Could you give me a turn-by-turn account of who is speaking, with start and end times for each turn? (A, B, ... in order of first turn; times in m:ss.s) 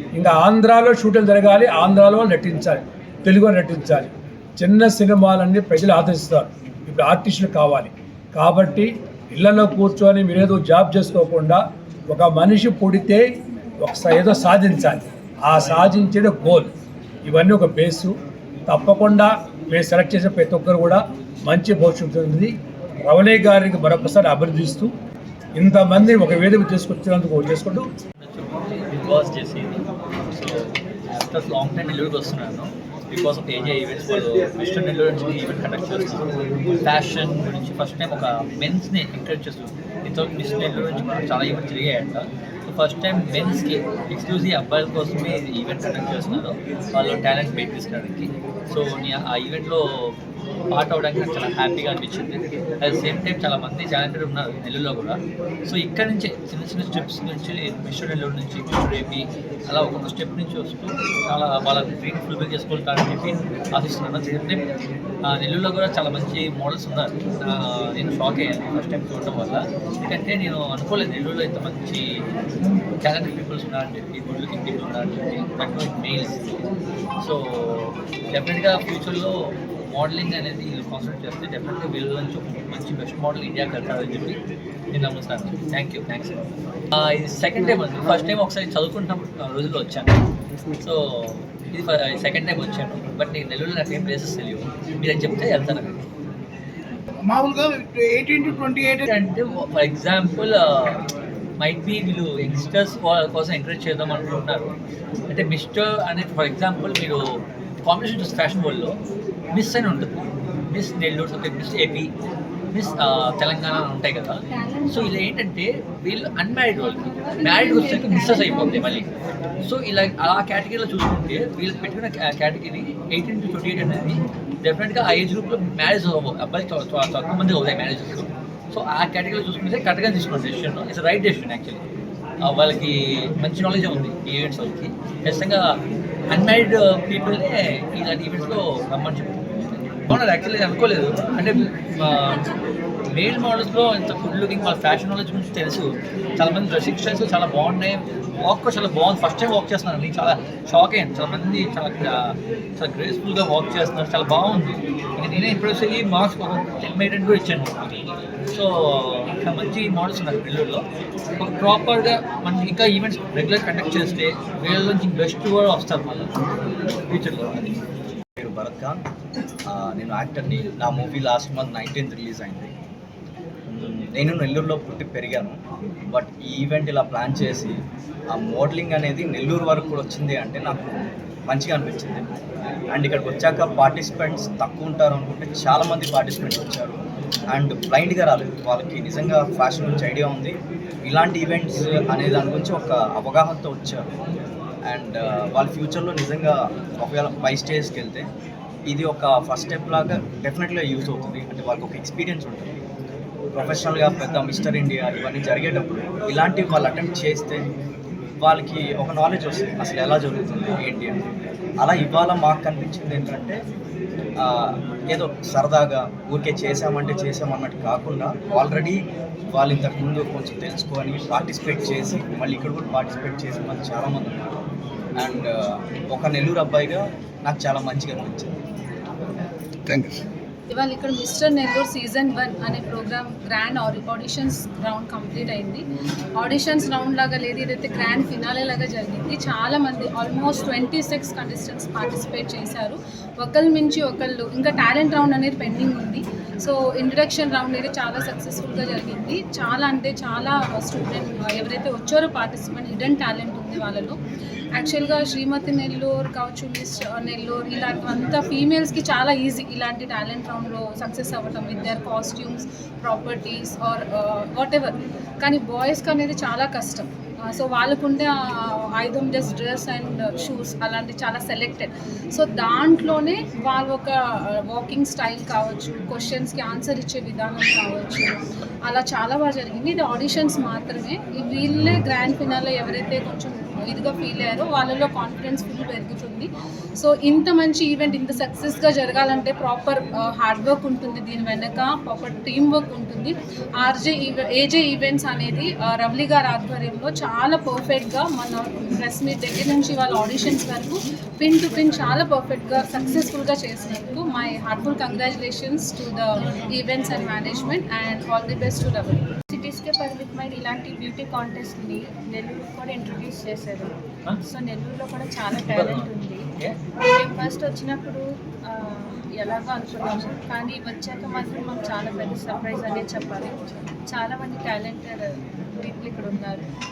0:00.2-0:13.2 A
0:13.8-0:16.7 A
0:17.2-0:18.1 A
0:18.7-0:22.5 A
0:23.0-0:24.9 A
0:25.6-0:27.8 A
0:28.2-0:36.2 B
0:36.8-0:50.1 B
0:50.7-1:04.6 B
1:05.3-1:12.0 B
1:13.0-1:16.5 B
1:17.2-1:19.4 B
1:19.9-1:24.4 B
1:24.9-1:26.4 B
1:26.9-1:30.1 B
1:30.8-1:36.0 B
1:37.2-1:39.0 C
1:39.0-1:41.0 B
1:41.6-1:44.7 B
1:45.3-1:47.2 B
1:47.8-1:49.0 B
1:49.5-1:52.1 B
1:52.7-1:59.1 B
1:57.4-1:59.0 D
1:59.6-2:11.8 B
2:12.5-2:15.6 B
2:16.3-2:22.5 B
2:23.1-2:37.9 B
2:38.5-2:40.8 B
2:41.4-2:46.3 B
2:47.0-2:47.7 B
2:48.4-2:49.0 E
2:49.7-2:52.7 E
2:53.7-2:55.6 E
2:56.1-2:57.8 E
2:58.3-3:00.9 E
3:01.5-3:02.3 E
3:02.9-3:07.0 E
3:07.5-3:14.0 E
3:14.9-3:18.3 E
3:18.9-3:22.8 E
3:23.6-3:27.7 E
3:28.4-3:31.2 E
3:31.8-3:33.6 E
3:34.4-3:39.0 E
3:39.5-3:44.5 E
3:45.2-3:45.5 E
3:46.1-3:48.6 E
3:49.9-3:50.1 C
3:50.7-3:55.8 F
3:56.4-4:14.2 F
4:14.7-5:09.3 F
5:09.5-5:16.4 D
5:15.6-5:16.7 B
5:17.1-5:25.3 D
5:25.8-5:26.6 D